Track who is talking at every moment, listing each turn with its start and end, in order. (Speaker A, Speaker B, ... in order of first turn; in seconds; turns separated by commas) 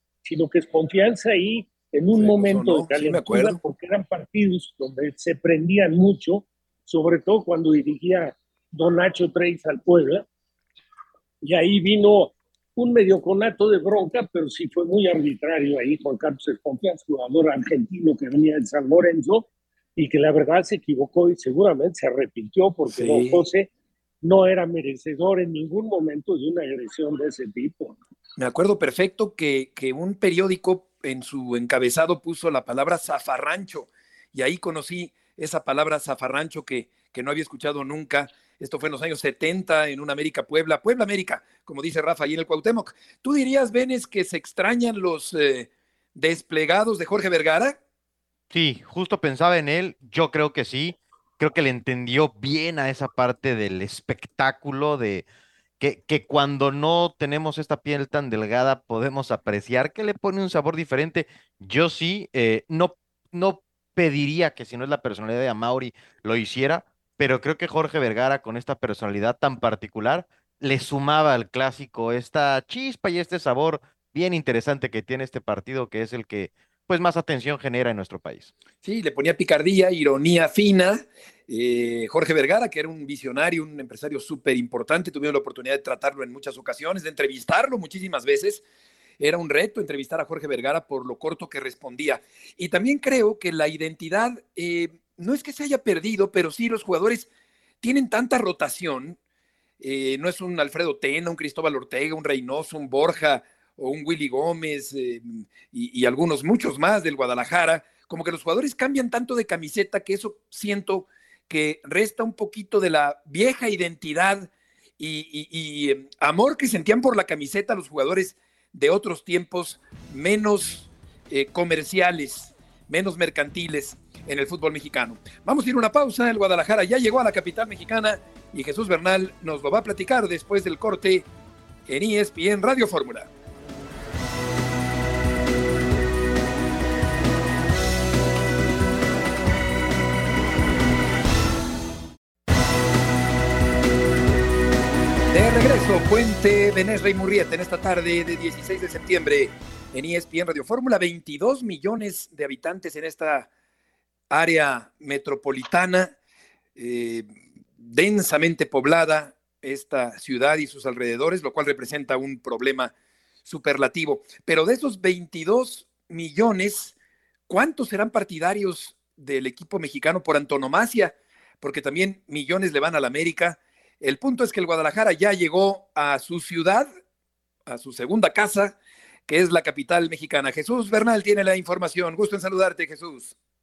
Speaker A: 0.2-10.2, Speaker B: 2.1-3.6, Speaker A: 11.4-23.7, Speaker B: 22.9-23.4, Speaker A: 24.2-28.0, Speaker B: 28.4-47.8, Speaker C: 48.5-55.2, Speaker C: 55.8-78.5, Speaker B: 78.8-88.6, Speaker B: 89.2-97.3, Speaker B: 97.8-99.2, Speaker B: 99.8-131.3, Speaker B: 131.9-133.3, Speaker B: 145.3-153.5, Speaker B: 154.3-156.1, Speaker B: 156.8-157.3, Speaker B: 157.8-162.9, Speaker B: 163.4-166.9, Speaker B: 167.5-176.9, Speaker B: 177.7-178.8, Speaker B: 179.3-183.3